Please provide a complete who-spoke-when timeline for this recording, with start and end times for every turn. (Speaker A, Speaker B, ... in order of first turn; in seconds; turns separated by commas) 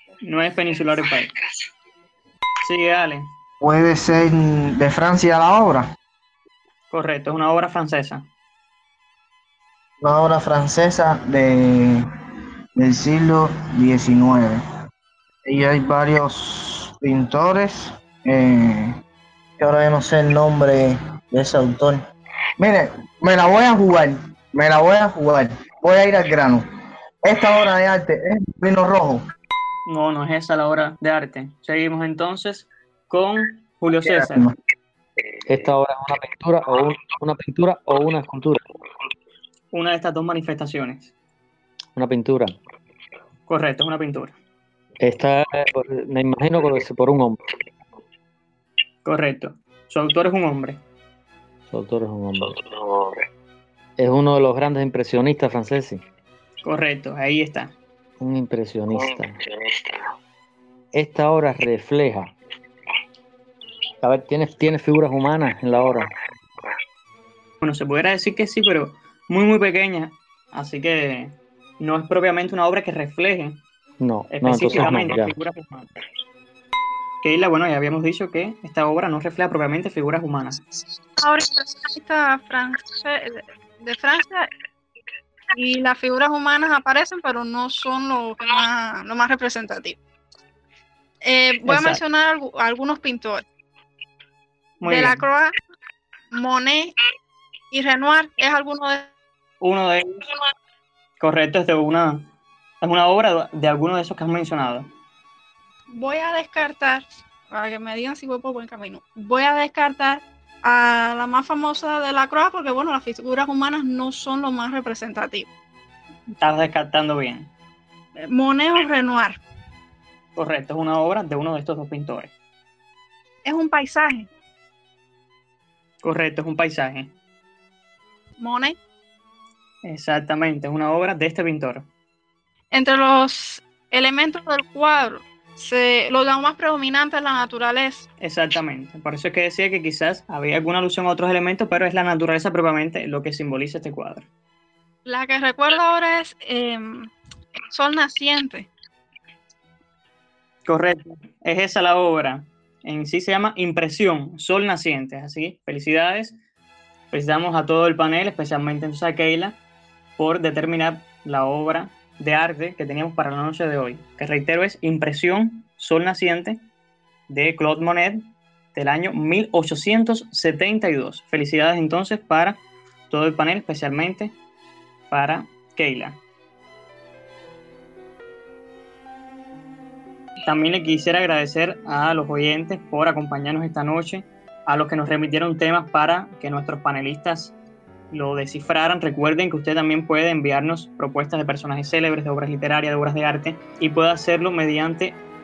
Speaker A: 0.2-1.3, Speaker A: 2.6-3.3, Speaker B: 3.6-5.9, Speaker A: 6.9-8.3, Speaker B: 10.0-12.0, Speaker B: 12.8-14.6, Speaker B: 15.5-18.9, Speaker B: 19.6-22.0, Speaker B: 22.6-26.6, Speaker B: 27.2-29.2, Speaker A: 29.9-34.5, Speaker B: 34.0-34.5, Speaker C: 35.4-38.6, Speaker A: 39.7-41.1, Speaker C: 41.9-42.5, Speaker A: 43.5-44.4, Speaker C: 45.0-47.4, Speaker A: 49.0-50.8, Speaker C: 51.7-52.6, Speaker C: 54.0-56.0, Speaker A: 56.6-57.8, Speaker C: 58.2-59.3, Speaker C: 60.9-62.3, Speaker C: 64.0-66.1, Speaker A: 67.6-73.6, Speaker C: 74.0-75.3, Speaker A: 74.3-75.9, Speaker A: 77.2-80.6, Speaker D: 81.2-84.5, Speaker D: 85.5-90.0, Speaker D: 91.2-93.5, Speaker A: 91.7-92.0, Speaker A: 94.8-95.2, Speaker D: 94.8-95.5, Speaker D: 96.3-96.9, Speaker D: 97.7-99.1, Speaker A: 99.6-100.2, Speaker A: 101.2-102.3, Speaker A: 102.8-104.9, Speaker D: 105.9-115.5, Speaker A: 116.4-117.5, Speaker D: 118.2-119.4, Speaker A: 120.3-122.3, Speaker D: 123.4-124.3, Speaker A: 126.0-127.1, Speaker D: 128.4-128.8, Speaker A: 129.8-131.9, Speaker D: 132.7-138.0, Speaker A: 138.2-144.3, Speaker D: 145.1-147.1, Speaker D: 147.7-148.7, Speaker A: 150.7-156.4, Speaker A: 157.1-159.6, Speaker A: 160.2-166.6, Speaker A: 167.3-168.2, Speaker A: 168.7-174.3, Speaker A: 175.1-176.2, Speaker A: 180.4-187.5, Speaker A: 188.1-195.2